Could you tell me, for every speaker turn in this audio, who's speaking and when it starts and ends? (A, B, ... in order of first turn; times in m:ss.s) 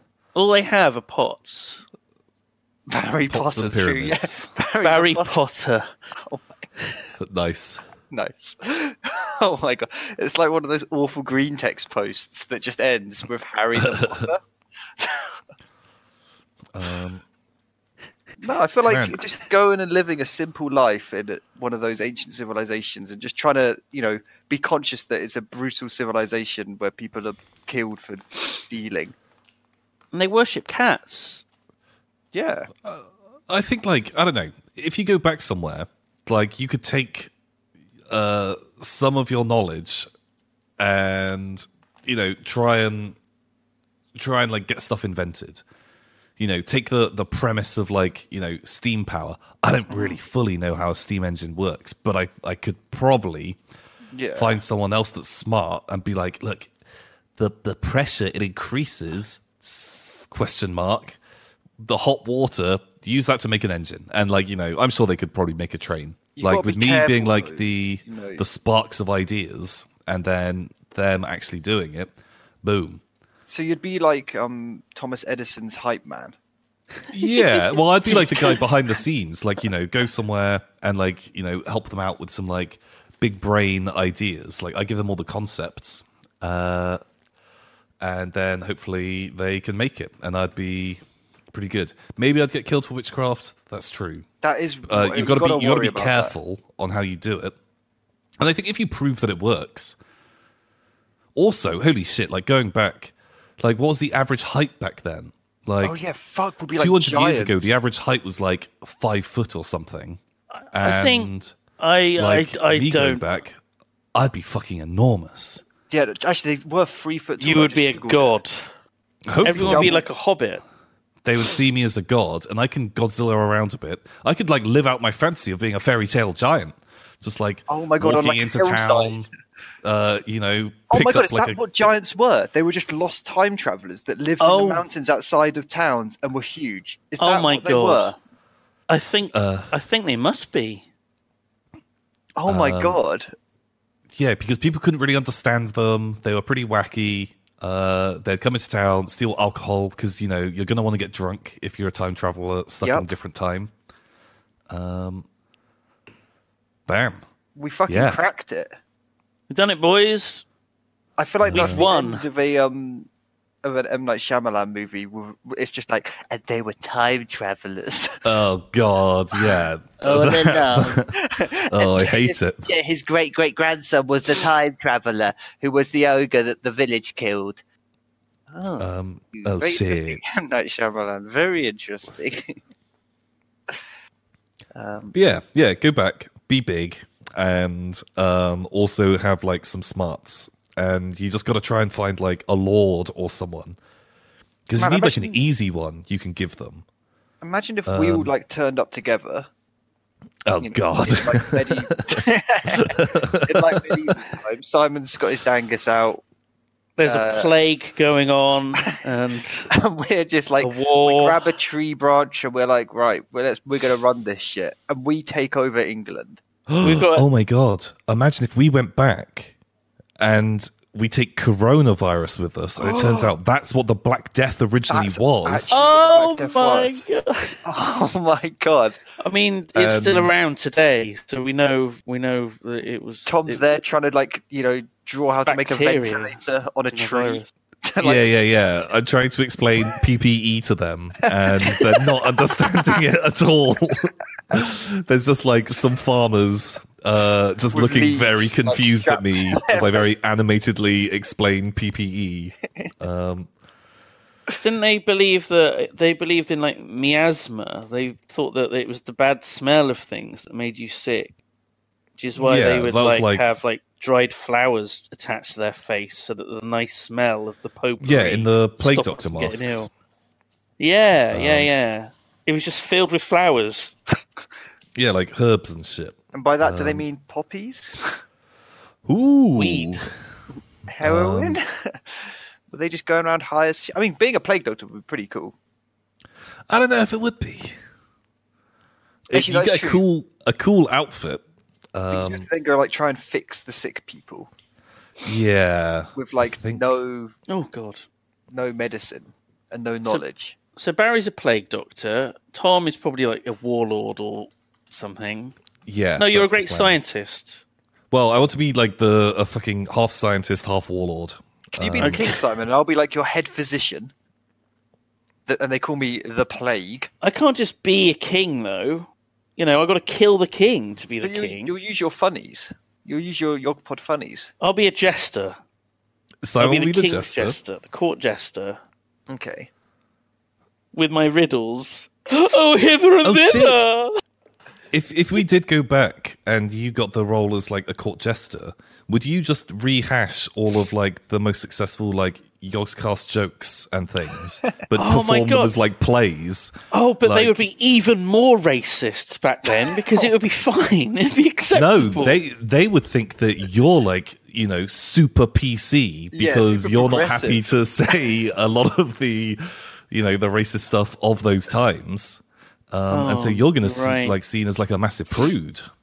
0:00.3-0:01.8 A
0:02.9-0:05.4 B
0:03.3-0:04.4 C
0:04.8-0:05.9 A
0:06.2-0:06.5 B
0:07.2-0:07.8 C
0:08.1-0:14.4 B
0:13.8-0:14.3 C
0:15.0-0:15.3 B
0:16.7-0:17.2 C
0:18.4-0:29.1 B
0:18.8-0:19.2 C
0:30.1-0:31.4 A
0:32.3-0:32.7 B
0:32.8-0:37.3 C
0:38.1-0:40.1 C
0:40.8-0:43.2 C
0:44.1-0:45.6 C
0:46.4-0:53.6 C
0:54.1-0:54.6 B
0:54.3-0:56.7 C
0:57.4-1:01.2 C
1:01.8-1:12.1 C
1:06.4-1:08.4 B
1:12.6-1:13.0 C
1:13.5-1:16.3 B
1:17.1-1:27.0 C
1:18.0-1:18.6 B
1:28.0-1:31.0 C
1:31.5-1:34.2 C
1:34.4-1:36.3 B
1:34.9-1:37.5 C
1:38.4-1:40.0 C
1:41.3-1:46.0 C
1:45.8-1:47.8 B
1:46.8-1:50.2 C
1:50.7-1:51.6 C
1:50.8-1:53.2 A
1:52.2-1:53.6 C
1:54.1-1:55.6 C
1:55.9-1:58.4 B
1:57.4-1:58.7 A
1:59.3-2:00.0 C
1:59.4-2:00.6 A
1:59.6-2:00.0 B
2:01.2-2:09.3 C
2:07.7-2:09.2 B
2:09.8-2:11.8 C
2:10.9-2:18.1 B
2:14.4-2:14.8 A
2:17.2-2:18.2 A
2:18.9-2:20.8 A
2:19.3-2:19.7 C
2:22.4-2:23.3 B
2:22.5-2:23.0 C
2:24.1-2:33.7 C
2:34.7-2:35.3 C
2:36.9-2:37.2 C
2:37.6-2:38.7 B
2:37.9-2:38.2 C
2:39.5-2:40.4 A
2:41.2-2:43.1 B
2:41.4-2:41.9 C
2:41.5-2:42.2 A
2:43.6-2:48.2 B
2:48.2-2:51.1 C
2:49.4-2:57.6 B
2:51.7-2:52.7 C
2:58.5-3:02.6 B
2:58.8-3:00.2 C
3:04.7-3:05.2 B
3:05.1-3:13.8 C
3:14.7-3:16.8 C
3:14.8-3:15.4 B
3:17.4-3:19.5 B
3:17.9-3:18.3 C
3:20.4-3:24.1 C
3:20.6-3:26.2 B
3:27.0-3:29.7 A
3:27.0-3:27.5 B
3:29.7-3:36.4 B
3:30.6-3:31.4 A
3:36.7-3:39.5 C
3:36.8-3:37.2 A
3:40.2-3:45.7 C
3:42.8-3:43.3 B
3:44.9-3:47.0 B
3:45.7-3:47.6 A
3:47.6-3:49.0 B
3:49.2-3:53.8 A
3:49.8-3:50.3 C
3:53.2-3:58.4 B
3:55.3-3:56.4 A
3:56.9-3:57.5 A
3:58.0-4:13.5 C
4:01.3-4:03.0 B
4:07.7-4:10.1 B
4:14.6-4:21.4 A
4:22.2-4:29.9 A
4:22.4-4:23.5 C
4:28.0-4:29.9 C
4:30.8-4:34.0 A
4:31.3-4:31.7 C
4:34.9-4:37.0 C
4:36.3-4:38.0 B
4:39.0-4:40.1 C
4:39.5-4:40.1 A
4:40.9-4:45.5 B
4:41.0-4:41.6 C
4:46.7-4:47.8 C
4:49.3-4:51.4 C
4:49.3-4:50.0 B
4:51.9-4:52.4 C
4:52.1-4:54.5 B
4:55.2-4:56.8 C
4:56.1-4:57.3 B
4:57.5-4:58.0 A
4:58.5-5:00.6 B
5:00.8-5:05.6 A
5:05.8-5:07.0 C
5:06.2-5:07.6 A
5:08.1-5:12.2 C
5:11.8-5:14.1 B
5:12.0-5:12.4 A
5:15.5-5:17.1 B
5:17.2-5:21.7 A
5:21.2-5:24.5 B
5:24.6-5:25.6 A
5:26.4-5:27.6 C
5:26.6-5:28.8 A
5:29.3-5:29.7 B
5:30.9-5:34.1 A
5:33.2-5:33.8 C
5:34.9-5:46.7 C
5:44.9-5:45.7 A
5:46.9-5:52.4 A
5:47.2-5:47.6 C
5:49.7-5:50.3 B
5:51.7-6:05.8 C
5:56.3-5:57.6 B
6:03.1-6:04.4 A